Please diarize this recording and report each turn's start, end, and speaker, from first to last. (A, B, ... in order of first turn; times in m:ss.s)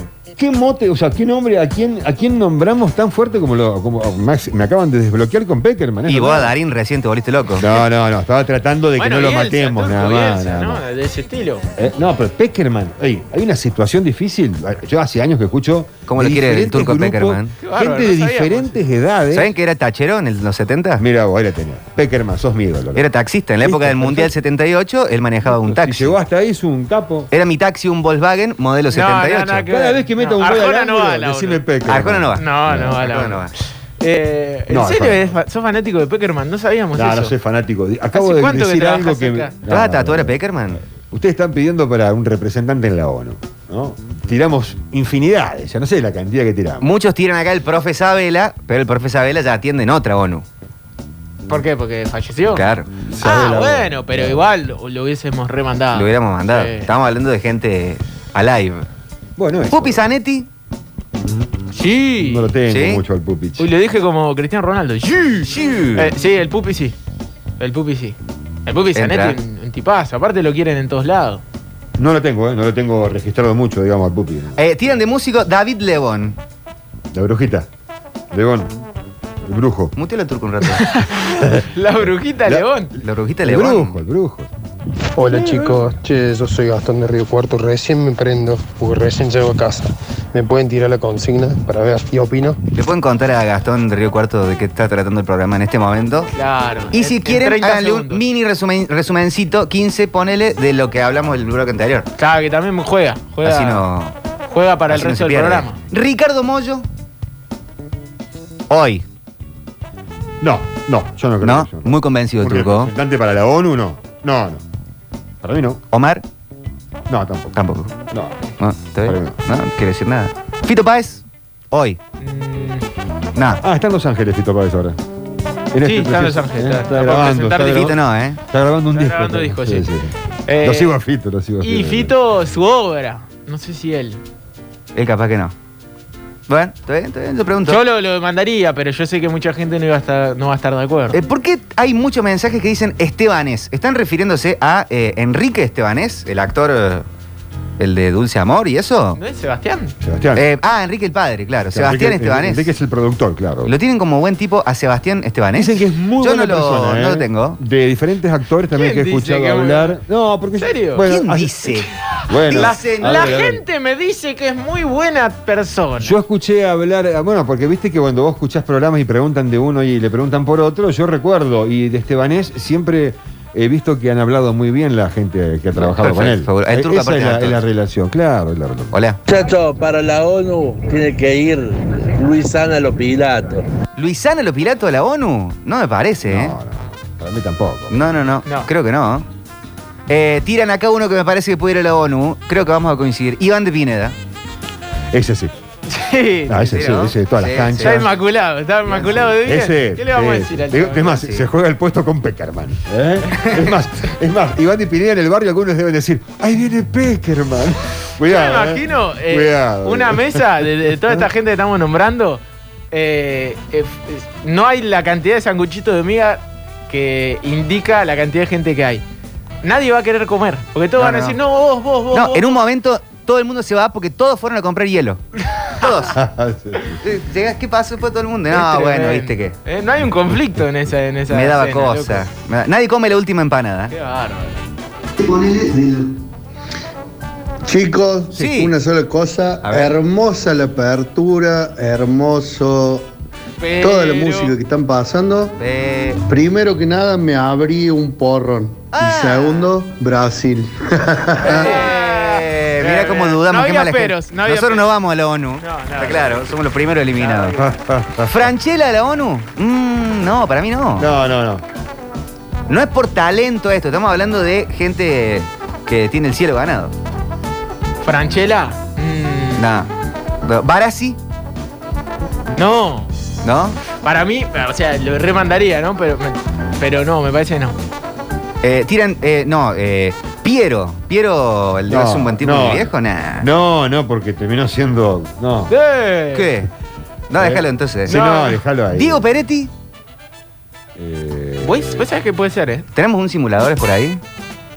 0:00.4-0:06.5 A
0:06.1-0:07.8 B
0:07.6-0:10.8 A
0:09.0-0:11.7 C
0:11.8-0:19.6 A
0:16.1-0:17.6 B
0:17.6-0:18.8 C
0:19.3-0:21.0 B
0:21.0-0:23.1 A
0:23.0-0:26.2 B
0:23.6-0:24.3 A
0:25.4-0:27.3 A
0:27.3-0:29.7 B
0:28.9-0:31.6 C
0:29.7-0:33.1 A
0:31.9-0:33.5 B
0:32.4-0:37.3 C
0:34.7-0:35.3 A
0:37.0-0:40.4 A
0:38.1-0:39.6 C
0:39.7-0:40.8 B
0:41.0-0:46.8 A
0:46.8-0:50.4 B
0:51.5-0:52.7 C
0:52.5-0:52.9 B
0:53.0-0:54.4 A
0:53.2-0:56.9 C
0:55.9-0:58.9 B
0:59.4-1:00.1 A
0:59.7-1:00.5 B
1:01.2-1:01.5 A
1:01.7-1:02.6 C
1:02.2-1:03.7 A
1:02.7-1:03.0 B
1:03.6-1:07.0 C
1:05.4-1:06.1 B
1:07.6-1:11.4 C
1:09.0-1:09.4 B
1:12.0-1:14.6 A
1:14.6-1:16.4 B
1:17.1-1:17.7 A
1:18.3-1:18.7 A
1:19.4-1:19.9 A
1:20.0-1:20.9 B
1:20.7-1:22.9 C
1:21.4-1:22.7 A
1:23.0-1:24.0 B
1:23.4-1:24.5 A
1:25.2-1:32.6 D
1:32.7-1:36.3 B
1:36.3-1:38.2 C
1:36.9-1:42.1 B
1:42.2-1:43.9 C
1:43.4-1:44.1 B
1:44.5-1:45.8 C
1:44.9-1:46.9 B
1:48.7-1:49.0 B
1:50.4-1:54.6 A
1:51.4-1:52.9 B
1:55.4-1:55.8 A
1:55.9-1:56.2 B
1:57.1-1:57.6 A
1:57.5-1:57.9 B
1:58.1-1:58.4 A
1:58.6-2:02.0 B
1:59.0-1:59.4 A
2:02.2-2:02.9 C
2:03.4-2:03.6 B
2:03.6-2:05.0 A
2:05.7-2:12.2 A
2:05.8-2:08.0 C
2:07.7-2:08.4 B
2:08.9-2:09.9 C
2:10.5-2:11.0 C
2:11.6-2:14.2 C
2:15.0-2:15.5 B
2:16.5-2:17.8 B
2:17.7-2:21.2 C
2:21.1-2:27.1 B
2:27.8-2:29.2 B
2:29.2-2:29.9 C
2:30.0-2:30.5 A
2:30.4-2:32.8 B
2:31.7-2:33.7 A
2:33.6-2:37.6 B
2:35.5-2:41.6 A
2:38.7-2:40.0 C
2:40.6-2:41.1 C
2:41.1-2:41.9 B
2:42.3-2:43.6 A
2:42.5-2:43.5 B
2:42.5-2:46.2 C
2:46.0-2:59.0 A
2:55.8-2:57.6 B
2:58.9-2:59.2 B
2:59.3-3:03.6 E
3:04.0-3:06.6 B
3:06.3-3:08.0 A
3:07.9-3:09.3 B
3:10.1-3:14.2 B
3:15.1-3:15.5 A
3:15.9-3:16.7 C
3:16.5-3:18.2 A
3:16.6-3:18.0 B
3:17.7-3:21.2 C
3:18.9-3:19.3 B
3:19.2-3:31.3 A
3:21.2-3:21.5 B
3:23.4-3:23.7 B
3:28.2-3:39.0 C
3:39.6-3:42.6 C
3:41.0-3:41.4 B
3:42.1-3:45.2 B
3:45.7-3:46.2 B
3:46.1-3:47.0 A
3:47.0-3:49.6 B
3:48.5-3:52.3 C
3:51.3-3:53.9 B
3:53.9-3:54.6 C
3:55.2-3:56.1 B
3:57.6-4:03.0 F
3:58.3-3:58.8 B
3:59.6-4:00.0 B
4:03.6-4:04.5 C
4:03.8-4:05.6 F
4:05.6-4:06.2 B
4:06.3-4:11.8 F
4:08.9-4:09.8 B
4:11.4-4:14.9 C
4:11.4-4:17.6 B
4:15.6-4:16.5 C
4:17.2-4:17.7 C
4:17.6-4:18.5 A
4:18.2-4:21.1 B
4:21.0-4:21.6 A
4:22.7-4:26.9 B
4:28.0-4:29.7 C
4:29.6-4:29.9 B
4:30.4-4:31.2 B
4:32.6-4:33.1 C
4:33.4-4:33.8 B
4:34.0-4:37.8 C
4:38.6-4:43.5 B
4:41.9-4:45.7 A
4:45.7-4:46.6 C
4:46.3-4:46.7 B
4:47.3-4:48.2 B
4:47.4-4:49.3 A
4:48.1-4:48.6 C
4:48.9-4:49.7 B
4:51.0-4:52.1 A
4:51.6-4:52.8 C
4:52.9-4:54.2 B